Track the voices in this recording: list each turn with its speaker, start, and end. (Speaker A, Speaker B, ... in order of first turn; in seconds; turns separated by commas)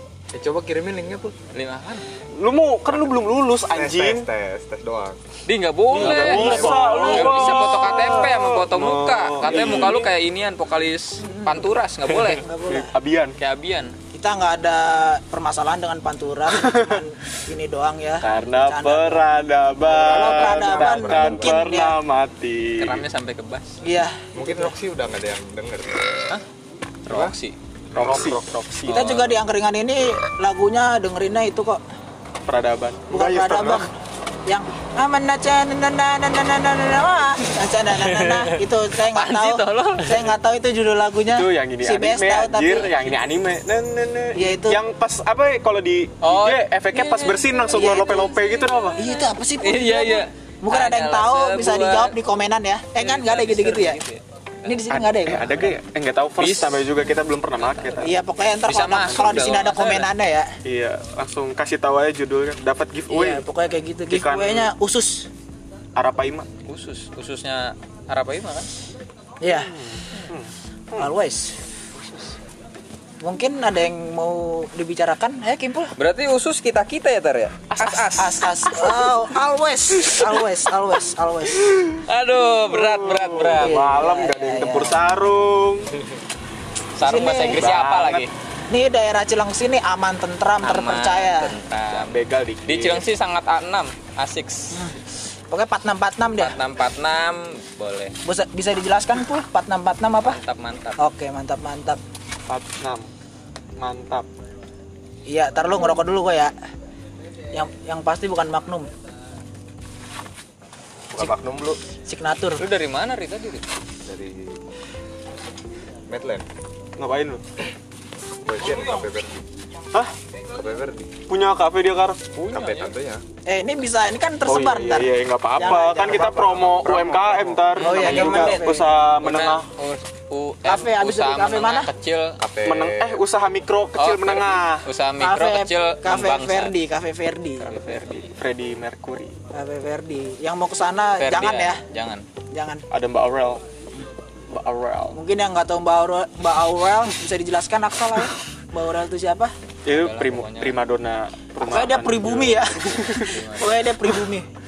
Speaker A: 0.3-1.4, Speaker B: 1.5-2.0, Speaker C: 2.4-4.3, Speaker A: 3.6-5.2, Speaker B: 5.5-12.4, Speaker C: 5.9-10.1, Speaker D: 5.9-8.3, Speaker A: 6.3-6.8, Speaker D: 11.2-11.7, Speaker C: 12.2-13.4, Speaker D: 12.4-12.9, Speaker B: 13.4-13.9, Speaker D: 14.1-19.2, Speaker C: 16.5-17.0, Speaker C: 18.2-23.0, Speaker A: 19.9-21.7, Speaker D: 19.9-22.0, Speaker B: 22.8-23.8, Speaker D: 23.8-24.7, Speaker A: 24.4-26.0, Speaker B: 27.1-27.6, Speaker C: 27.9-29.3, Speaker A: 28.0-28.5, Speaker D: 28.9-31.8, Speaker B: 28.9-29.3, Speaker C: 32.5-33.9, Speaker D: 33.1-33.9, Speaker A: 33.4-33.8, Speaker D: 34.5-42.9, Speaker B: 39.1-40.2, Speaker C: 41.3-49.0, Speaker D: 44.4-44.8, Speaker B: 46.2-52.2, Speaker D: 47.8-48.2, Speaker D: 49.0-54.0, Speaker B: 53.0-55.5, Speaker D: 54.6-55.7, Speaker C: 54.9-58.1, Speaker B: 56.4-56.9, Speaker B: 57.6-58.1, Speaker D: 58.0-60.5, Speaker B: 58.7-60.1, Speaker C: 60.6-63.4, Speaker D: 63.1-65.3, Speaker C: 64.1-64.7, Speaker C: 66.0-66.5, Speaker B: 66.7-68.7, Speaker D: 69.4-69.7, Speaker C: 69.5-71.1, Speaker D: 71.0-71.5, Speaker B: 72.0-72.3, Speaker D: 73.2-76.0, Speaker B: 76.0-78.1, Speaker C: 77.7-78.4, Speaker D: 77.8-81.7, Speaker B: 82.0-83.8, Speaker C: 82.7-85.9, Speaker D: 83.6-85.1, Speaker B: 87.0-88.3, Speaker D: 87.0-87.6, Speaker C: 87.5-88.3, Speaker D: 88.7-91.5, Speaker B: 90.6-94.8, Speaker C: 91.9-93.0, Speaker D: 94.7-95.0, Speaker D: 95.5-96.6, Speaker B: 96.4-98.2, Speaker D: 98.2-100.4, Speaker B: 100.2-101.0, Speaker D: 101.0-102.0, Speaker C: 102.5-103.1, Speaker C: 103.8-104.3, Speaker D: 105.3-106.5, Speaker D: 107.5-108.9, Speaker A: 111.1-111.8, Speaker D: 112.1-112.6, Speaker B: 112.6-113.6, Speaker A: 114.0-114.6, Speaker A: 116.1-116.5, Speaker C: 117.0-117.4, Speaker A: 118.4-119.4, Speaker A: 120.5-121.1, Speaker C: 121.3-122.2, Speaker B: 122.3-122.9, Speaker A: 122.5-123.2, Speaker D: 123.5-126.6, Speaker C: 124.5-129.7, Speaker A: 126.5-127.7, Speaker B: 127.8-128.7, Speaker D: 127.8-128.9, Speaker B: 129.2-132.4, Speaker D: 130.7-131.9, Speaker A: 132.4-133.2, Speaker C: 132.6-134.8, Speaker B: 134.0-136.8, Speaker D: 135.2-137.7, Speaker B: 137.6-138.3, Speaker C: 137.8-139.3, Speaker D: 139.5-141.8, Speaker B: 141.2-142.2, Speaker D: 142.5-142.8, Speaker C: 142.9-143.6, Speaker C: 144.5-145.2, Speaker D: 145.1-149.5, Speaker C: 149.8-153.3, Speaker B: 149.9-150.8, Speaker D: 151.6-154.5, Speaker B: 153.0-153.8